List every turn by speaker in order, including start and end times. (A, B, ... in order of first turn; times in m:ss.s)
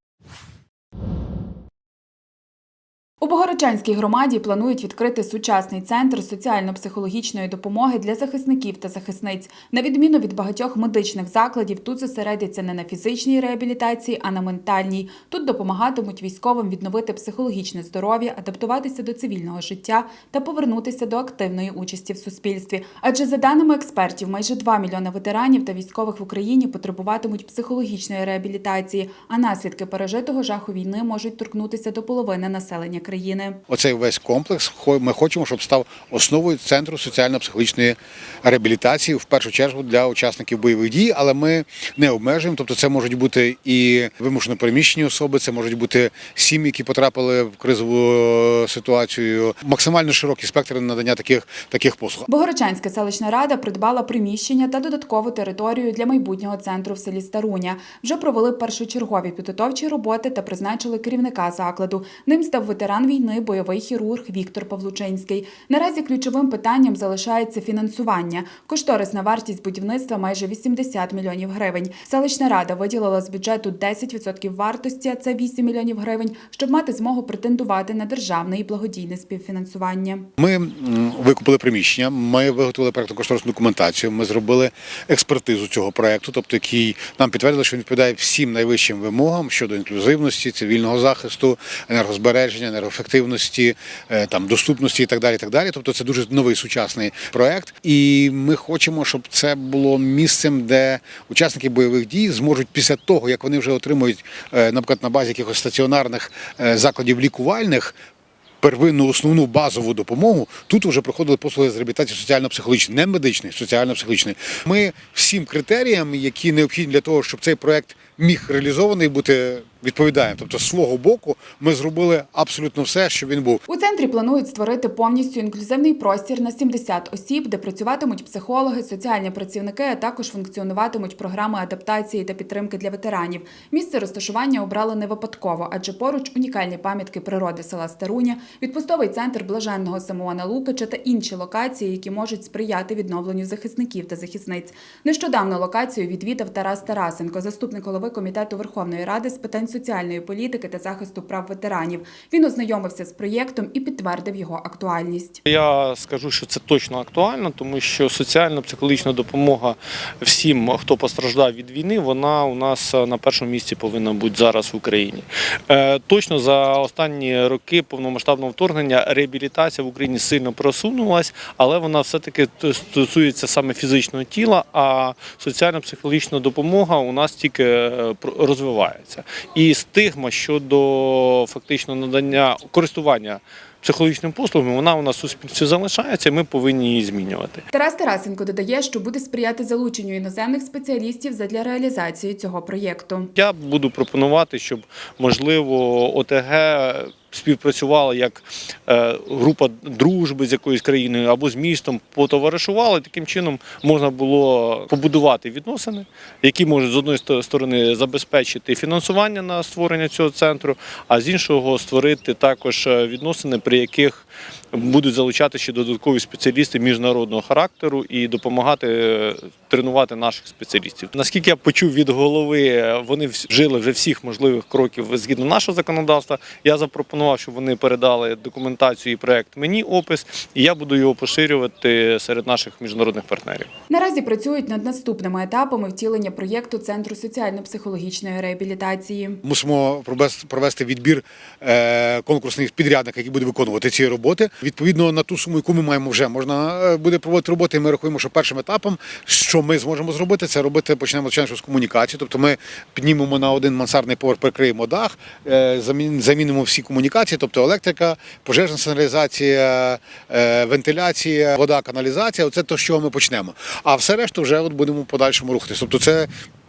0:03.2-0:33.6 A
0:33.7-0:52.3 B
0:52.3-1:20.3 A
1:20.4-1:48.0 B
1:48.6-2:03.6 B
2:03.7-2:35.4 A
2:35.5-3:07.6 C
3:07.7-3:13.3 A
3:13.4-3:53.7 C
3:53.9-3:59.4 A
3:59.4-4:26.3 B